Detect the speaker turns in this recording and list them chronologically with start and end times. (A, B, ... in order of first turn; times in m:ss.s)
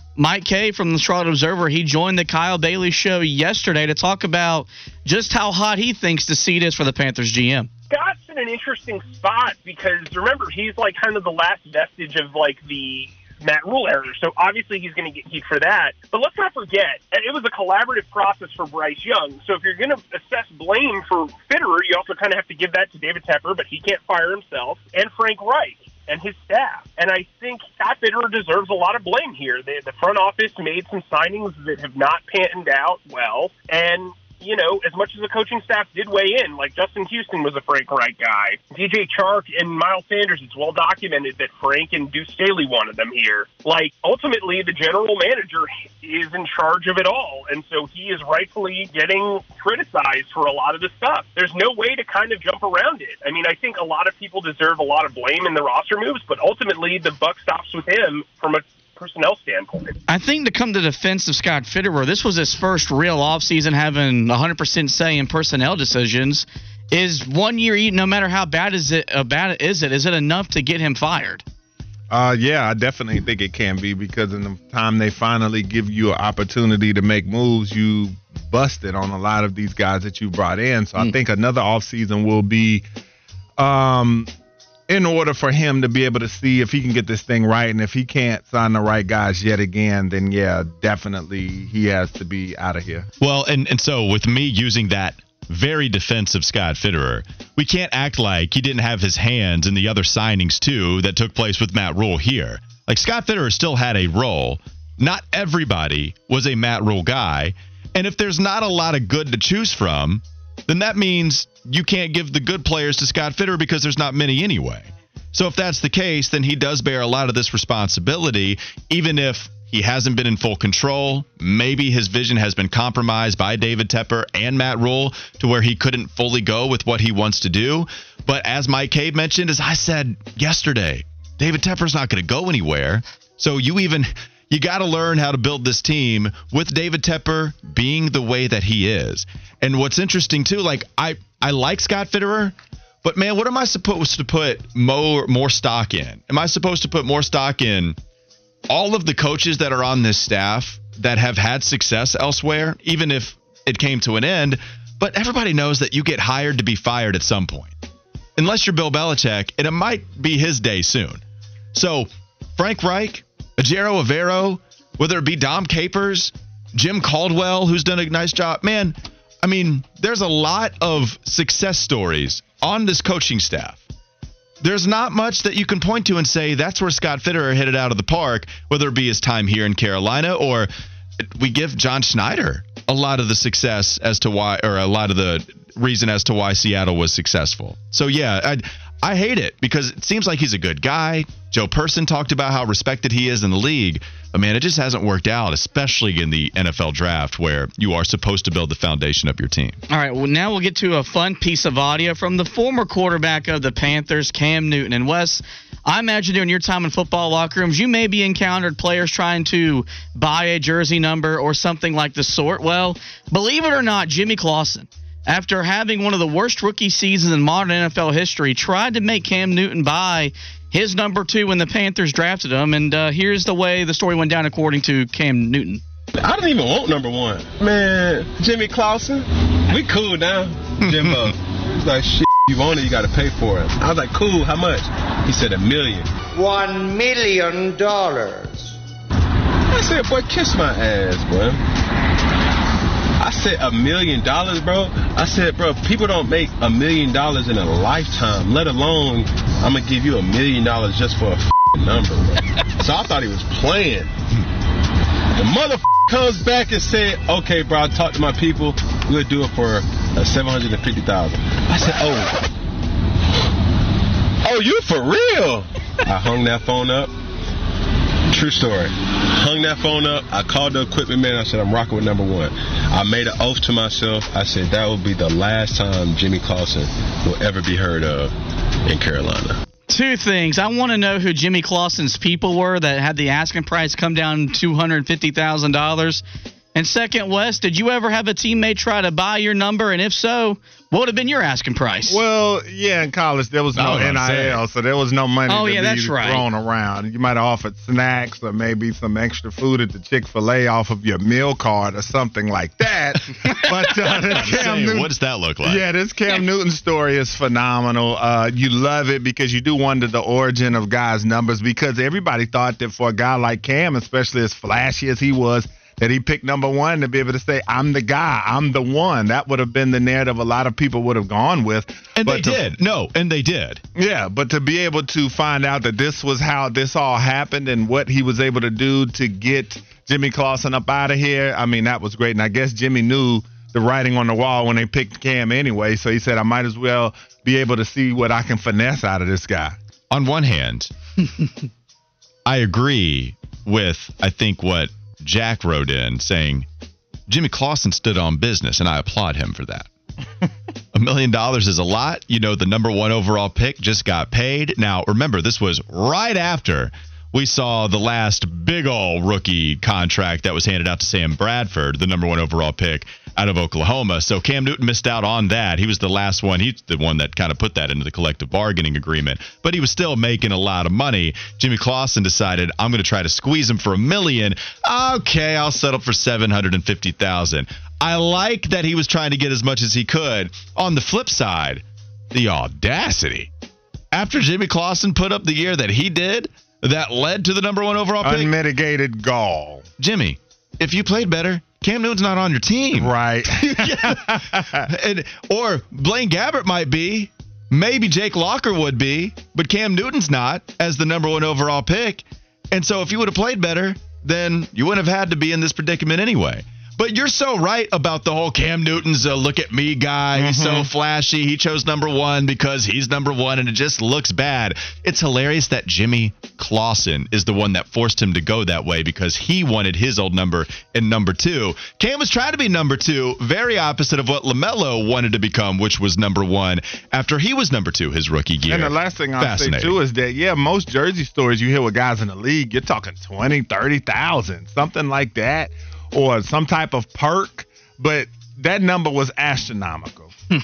0:00.2-0:07.7 A
0:07.9-1:00.0 B
1:00.1-1:11.4 A
1:12.1-1:22.8 C
1:23.6-1:24.3 C
1:24.9-1:33.1 C
1:33.2-2:28.0 D
2:28.7-2:37.7 D
2:38.4-2:41.2 D
2:41.7-2:53.8 D
2:54.6-3:19.8 D
3:19.9-3:45.8 A
3:46.2-3:56.1 E
3:56.3-3:58.7 F
3:59.7-4:01.6 E
4:03.2-4:14.1 E
4:15.3-4:22.4 E
4:24.4-4:27.1 E
4:28.3-4:38.3 E
4:38.8-4:39.6 E
4:39.9-4:46.2 A
4:46.7-4:52.2 A
4:52.1-5:22.7 C
4:53.7-4:54.6 D
4:55.5-4:56.4 A
5:03.4-5:05.8 D
5:22.2-5:23.8 D
5:23.9-5:39.8 C
5:40.1-5:40.9 D
5:42.4-5:46.7 D
5:47.3-5:49.9 D
5:50.9-6:23.5 D
6:24.1-6:28.5 D
6:28.2-6:29.8 C
6:30.0-7:10.0 D
6:32.9-6:34.9 C
6:50.3-6:50.9 C
7:08.7-7:20.3 C